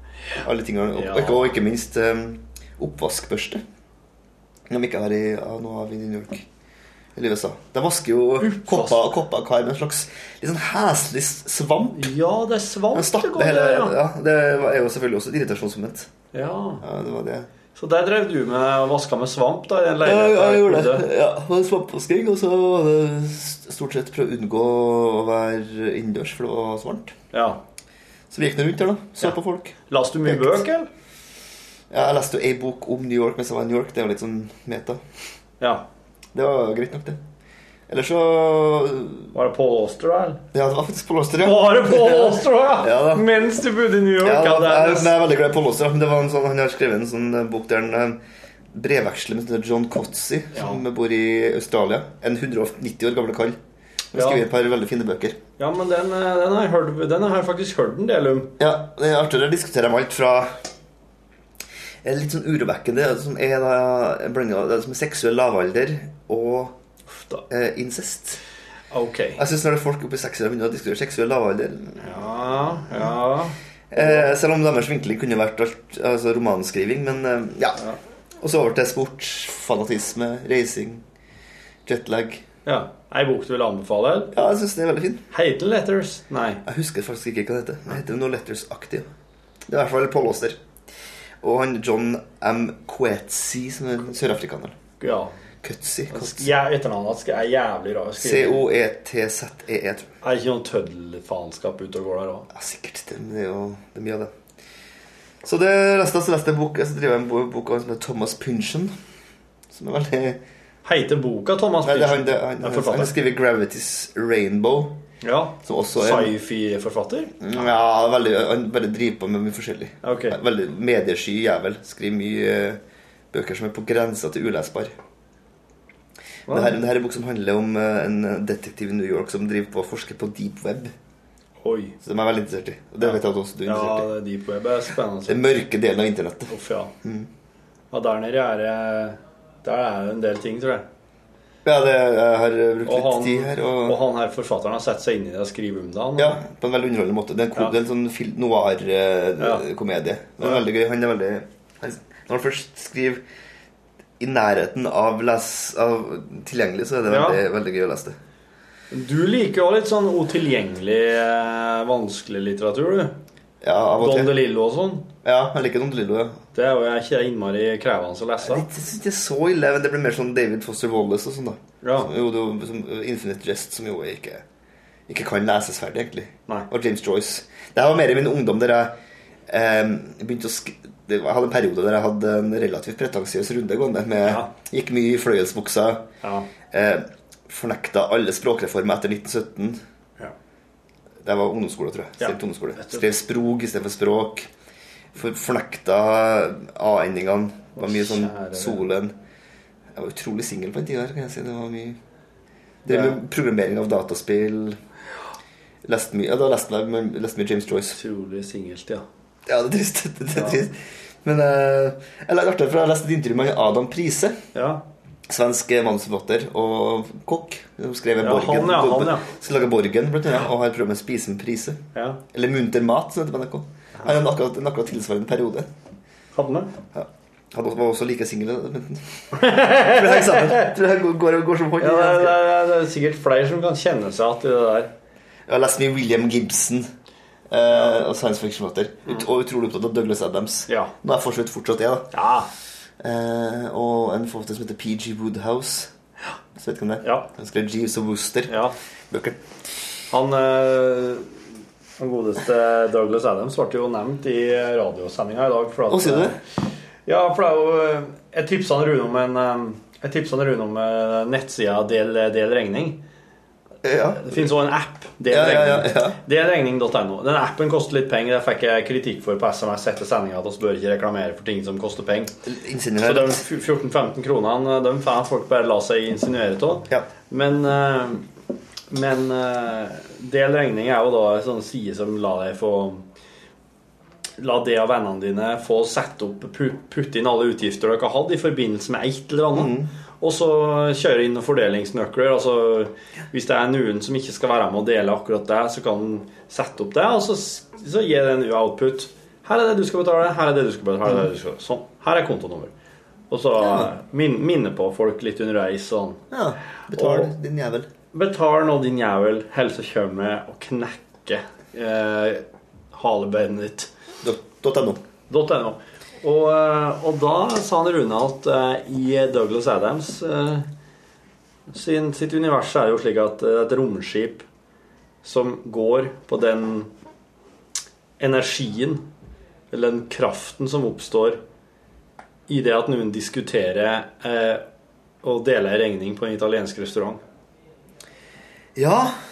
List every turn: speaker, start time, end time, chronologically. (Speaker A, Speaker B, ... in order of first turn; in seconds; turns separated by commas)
Speaker A: 0.4-3.6, Speaker B: 0.9-1.6, Speaker A: 4.7-6.5, Speaker A: 7.2-12.1, Speaker B: 8.4-9.1, Speaker B: 11.9-14.0, Speaker A: 12.9-16.1, Speaker B: 16.3-16.8, Speaker A: 16.8-17.5, Speaker B: 17.7-21.1, Speaker A: 20.0-27.1, Speaker B: 27.3-27.6, Speaker A: 28.3-30.6, Speaker B: 29.9-30.9, Speaker A: 31.9-35.0, Speaker B: 35.6-35.9, Speaker A: 36.3-37.2, Speaker A: 37.9-39.3, Speaker B: 39.3-40.4, Speaker A: 40.5-43.3, Speaker B: 41.4-45.2, Speaker A: 44.2-48.2, Speaker A: 48.7-53.6, Speaker B: 50.5-50.8, Speaker A: 54.1-55.4, Speaker B: 54.1-54.5, Speaker B: 55.6-58.5, Speaker A: 58.6-60.6, Speaker A: 62.0-66.8, Speaker B: 67.1-67.5, Speaker A: 67.5-68.4, Speaker B: 68.9-69.4, Speaker A: 69.4-72.2, Speaker B: 72.0-74.3, Speaker A: 72.9-73.1, Speaker A: 73.9-77.8, Speaker A: 78.4-81.0, Speaker A: 81.9-82.4, Speaker B: 82.7-84.4, Speaker A: 84.3-85.2, Speaker B: 85.3-86.6, Speaker A: 86.7-89.1, Speaker A: 89.7-90.6, Speaker A: 91.4-94.8, Speaker B: 95.0-95.3, Speaker A: 95.6-96.5, Speaker B: 96.1-98.7, Speaker A: 98.2-100.1, Speaker B: 100.2-102.5, Speaker A: 102.5-104.3, Speaker A: 105.4-108.9, Speaker A: 109.7-110.4, Speaker B: 110.8-113.2, Speaker A: 111.8-115.0, Speaker B: 115.2-117.3, Speaker A: 115.7-116.3, Speaker A: 117.4-122.8, Speaker B: 120.0-120.4, Speaker A: 123.3-124.9, Speaker A: 126.5-130.9, Speaker B: 126.5-126.8, Speaker B: 131.6-132.0, Speaker A: 132.0-134.1, Speaker B: 133.0-135.5, Speaker A: 135.3-136.5, Speaker B: 136.5-136.9, Speaker B: 137.9-140.9, Speaker A: 141.7-144.0, Speaker B: 142.8-146.4, Speaker A: 146.2-153.2, Speaker A: 154.2-158.2, Speaker B: 157.1-157.4, Speaker B: 158.9-163.2, Speaker A: 163.6-164.4, Speaker B: 164.0-165.1, Speaker A: 165.2-166.4, Speaker B: 166.5-168.7, Speaker A: 168.4-174.4, Speaker B: 171.8-172.1, Speaker A: 175.1-178.9, Speaker A: 179.5-186.1, Speaker B: 184.2-184.5, Speaker B: 186.2-186.5, Speaker A: 186.7-189.8, Speaker A: 191.2-194.5, Speaker B: 192.2-193.1, Speaker A: 195.2-199.1, Speaker B: 197.8-198.9, Speaker A: 199.9-202.0, Speaker A: 202.8-204.8, Speaker B: 202.9-203.2, Speaker A: 205.8-208.0, Speaker B: 207.9-209.0, Speaker A: 209.5-214.4, Speaker B: 210.3-210.6, Speaker B: 214.5-214.8, Speaker A: 215.3-221.8, Speaker B: 218.2-219.3, Speaker B: 221.9-222.2, Speaker A: 222.3-225.7, Speaker B: 226.3-226.7, Speaker A: 226.9-232.4, Speaker B: 229.3-230.7, Speaker B: 231.8-234.9, Speaker A: 235.5-236.9, Speaker A: 237.5-242.1, Speaker B: 240.7-240.9, Speaker B: 242.1-242.5, Speaker A: 243.0-245.9, Speaker A: 246.6-248.6, Speaker B: 247.0-247.3, Speaker B: 248.5-248.8, Speaker A: 249.1-249.4, Speaker B: 250.1-251.4, Speaker B: 252.0-256.4, Speaker A: 255.9-256.4, Speaker B: 257.1-263.0, Speaker A: 263.8-264.5, Speaker B: 264.1-272.3, Speaker A: 265.3-266.2, Speaker A: 272.5-273.4, Speaker B: 273.0-278.2, Speaker B: 278.9-283.1, Speaker B: 284.4-302.7, Speaker A: 289.5-289.9, Speaker B: 303.3-306.2, Speaker A: 303.6-303.9, Speaker A: 306.3-307.9, Speaker B: 306.9-307.3, Speaker B: 308.1-313.9, Speaker A: 314.2-315.0, Speaker B: 315.3-320.7, Speaker B: 321.7-324.5, Speaker B: 325.2-326.9, Speaker B: 328.2-329.1, Speaker B: 329.7-331.4, Speaker B: 332.5-334.6, Speaker B: 335.2-337.2, Speaker A: 338.8-339.2